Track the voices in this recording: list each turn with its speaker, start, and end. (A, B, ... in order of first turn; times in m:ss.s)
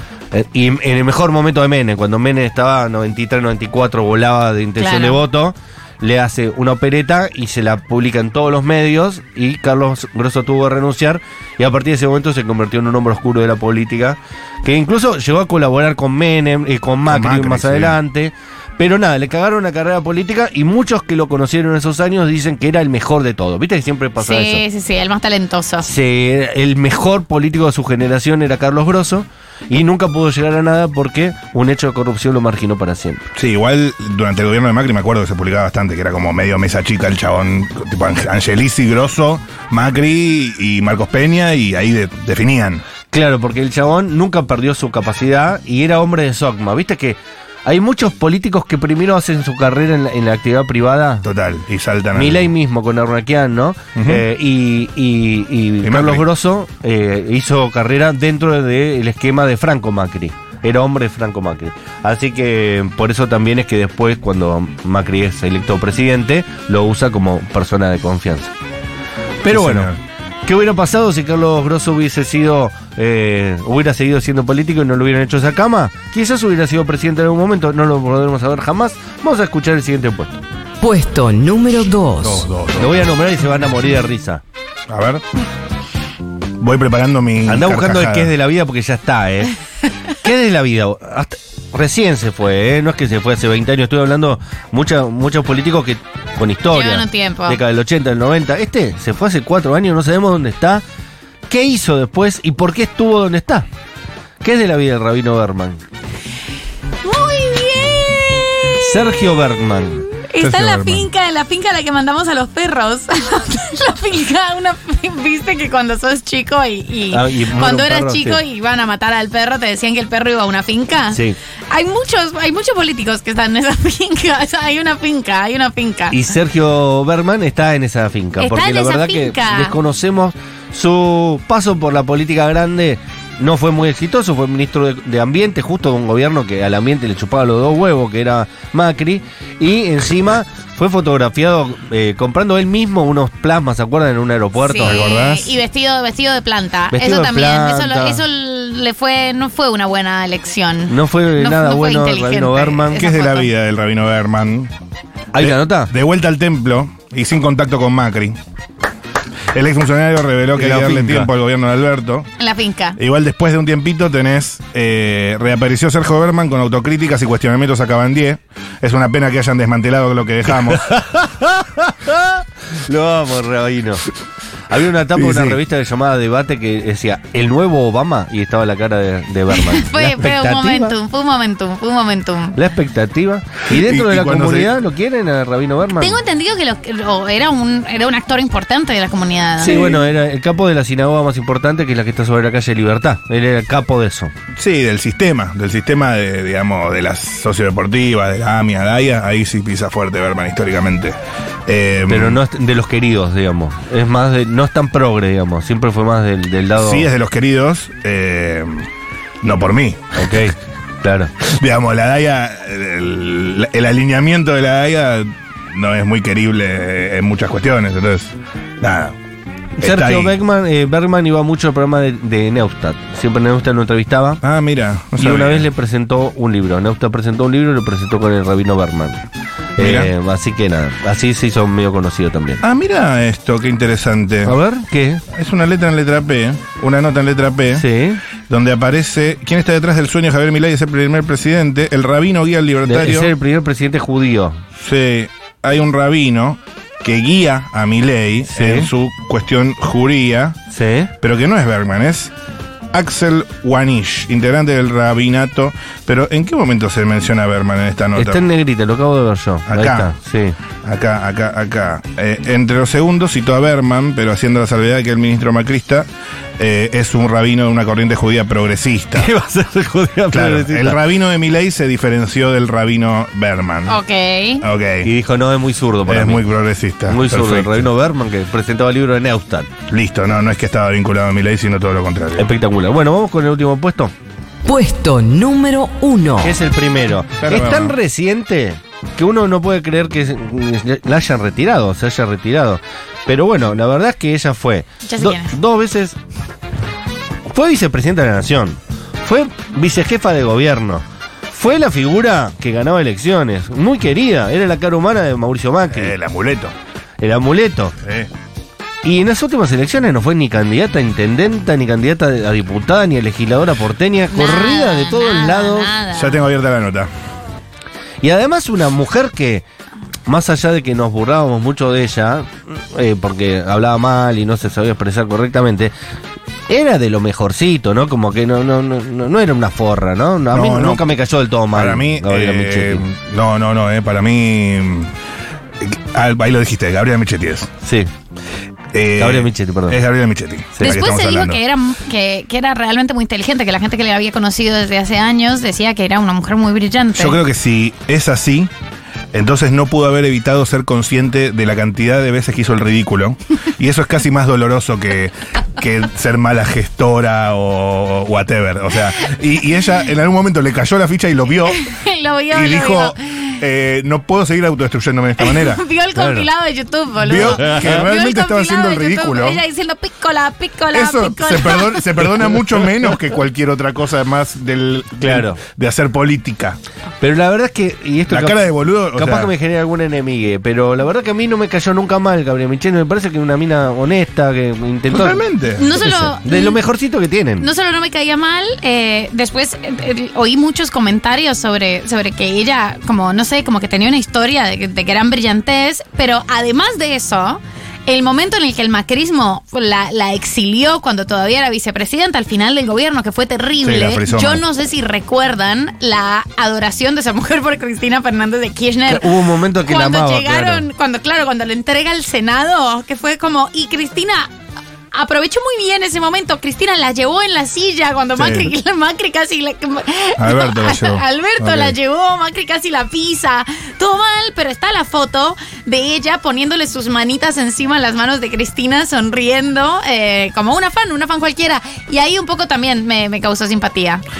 0:00.3-0:24.6 A
0:04.8-0:05.2 B
0:17.1-0:18.0 C
0:24.2-0:25.9 B
0:25.8-0:33.2 A
0:33.4-0:42.8 C
0:43.1-0:51.3 A
0:51.2-0:52.5 C
0:52.1-1:08.5 A
0:54.0-0:54.2 C
0:55.8-0:56.2 C
1:09.4-1:09.9 A
1:09.5-1:10.0 C
1:10.4-1:20.4 A
1:20.8-1:22.4 D
1:22.2-1:23.1 C
1:22.8-1:24.4 A
1:24.9-1:25.2 C
1:26.6-1:28.3 C
1:27.4-1:29.5 A
1:30.2-1:40.8 A
1:36.7-1:37.6 B
1:41.5-1:43.7 A
1:44.4-1:45.8 A
1:47.0-1:49.1 B
1:48.8-1:50.1 A
1:50.2-2:06.2 B
1:50.4-1:51.1 C
1:57.1-1:58.4 A
2:06.1-2:25.0 A
2:08.4-2:09.7 B
2:24.6-2:33.5 B
2:24.8-2:25.6 C
2:26.9-2:28.2 A
2:30.9-2:33.0 A
2:32.9-2:34.7 C
2:35.3-2:35.9 A
2:35.4-2:38.4 C
2:39.5-2:42.3 C
2:40.5-2:41.3 A
2:42.4-2:43.0 B
2:43.0-2:50.9 C
2:50.6-2:54.0 A
2:54.7-3:00.9 A
2:55.1-2:55.6 C
2:59.6-3:02.6 B
3:02.5-3:06.2 A
3:03.7-3:04.7 C
3:06.0-3:09.9 B
3:09.6-3:14.3 A
3:14.5-3:22.4 C
3:22.1-3:27.1 A
3:26.7-3:28.9 C
3:29.4-3:30.4 C
3:30.1-3:31.3 A
3:31.4-3:39.2 C
3:39.8-3:40.4 C
3:39.8-3:44.4 A
3:44.4-3:45.7 C
3:45.2-3:49.2 A
3:49.8-3:52.6 A
3:49.8-3:50.1 C
3:52.6-3:54.6 C
3:54.4-3:55.2 A
3:55.3-3:57.8 C
3:57.7-3:58.2 A
3:58.5-4:03.3 C
4:02.8-4:04.6 A
4:04.8-4:10.6 C
4:08.5-4:08.9 A
4:10.7-4:11.1 A
4:11.2-4:12.3 C
4:12.9-4:18.4 C
4:18.2-4:20.6 A
4:19.7-4:20.1 C
4:20.8-4:26.1 C
4:26.6-4:29.3 C
4:29.2-4:31.0 A
4:30.3-4:34.0 C
4:33.9-4:34.6 B
4:34.6-4:35.1 C
4:35.0-4:36.5 A
4:36.0-4:37.9 C
4:37.0-4:39.7 A
4:39.9-4:42.5 C
4:42.4-4:44.1 A
4:44.6-4:46.6 D
4:46.4-4:56.2 A
4:47.4-4:48.0 C
4:55.0-4:55.6 B
4:57.5-5:06.1 A
5:05.9-5:06.7 C
5:07.2-5:07.9 A
5:08.0-5:08.3 C
5:09.0-5:15.9 A
5:14.3-5:16.4 B
5:16.1-5:17.1 C
5:18.2-5:19.6 A
5:20.2-5:25.9 A
5:26.7-5:33.0 A
5:30.5-5:31.1 C
5:31.7-5:35.1 C
5:35.8-5:37.7 C
5:37.8-5:38.1 A
5:38.9-5:41.6 C
5:39.2-5:40.0 A
5:40.7-5:41.0 A
5:40.8-5:47.4 B
5:47.1-5:48.7 C
5:49.3-6:01.8 C
6:01.6-6:03.6 B
6:02.5-6:05.8 C
6:05.4-6:12.2 B
6:06.2-6:06.5 A
6:07.2-6:09.6 C
6:07.4-6:08.0 A
6:10.9-6:16.8 C
6:15.2-6:15.6 A
6:17.2-6:27.7 A
6:18.3-6:19.5 C
6:25.1-6:25.9 C
6:25.8-6:26.8 B
6:27.6-6:54.5 B
6:43.8-6:44.6 C
6:49.1-6:50.8 A
6:55.1-7:14.2 B
6:58.4-6:58.7 C
7:00.4-7:01.9 C